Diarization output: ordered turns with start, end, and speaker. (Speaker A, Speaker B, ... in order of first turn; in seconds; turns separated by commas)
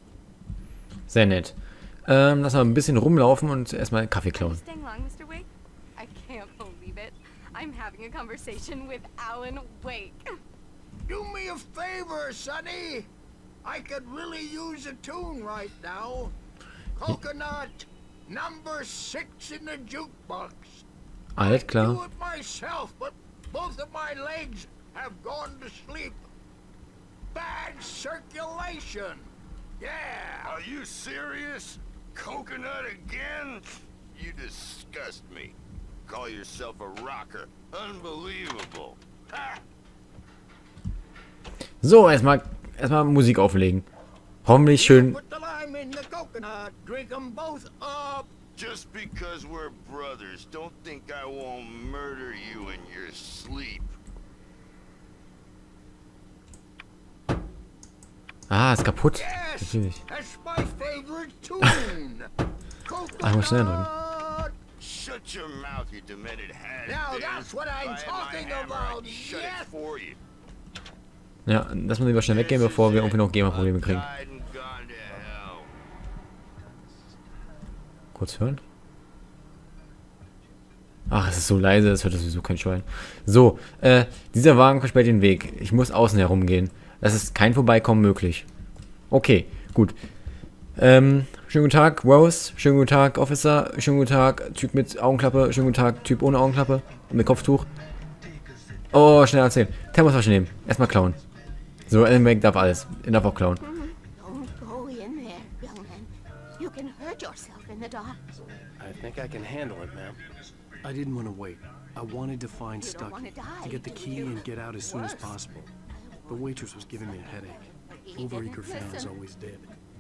Speaker A: 1.1-4.6, Speaker B: 4.3-10.4, Speaker C: 11.1-13.1, Speaker C: 13.6-16.4, Speaker C: 17.0-20.9, Speaker A: 21.4-22.0, Speaker C: 21.4-26.2, Speaker C: 27.3-30.6, Speaker D: 30.4-39.6, Speaker A: 41.8-43.9, Speaker A: 44.5-45.2, Speaker C: 44.7-48.3, Speaker D: 48.6-54.0, Speaker A: 58.5-60.0, Speaker C: 59.2-62.3, Speaker C: 62.9-64.5, Speaker A: 63.2-63.9, Speaker D: 64.8-70.2, Speaker C: 66.8-69.8, Speaker A: 71.5-74.1, Speaker D: 72.3-75.7, Speaker A: 78.2-78.6, Speaker A: 81.1-88.5, Speaker A: 89.1-90.0, Speaker A: 90.8-97.7, Speaker A: 98.9-101.2, Speaker A: 101.9-103.6, Speaker E: 103.6-108.2, Speaker F: 108.8-110.2, Speaker F: 110.8-115.7, Speaker E: 112.8-115.4, Speaker E: 115.9-119.1, Speaker F: 116.3-119.7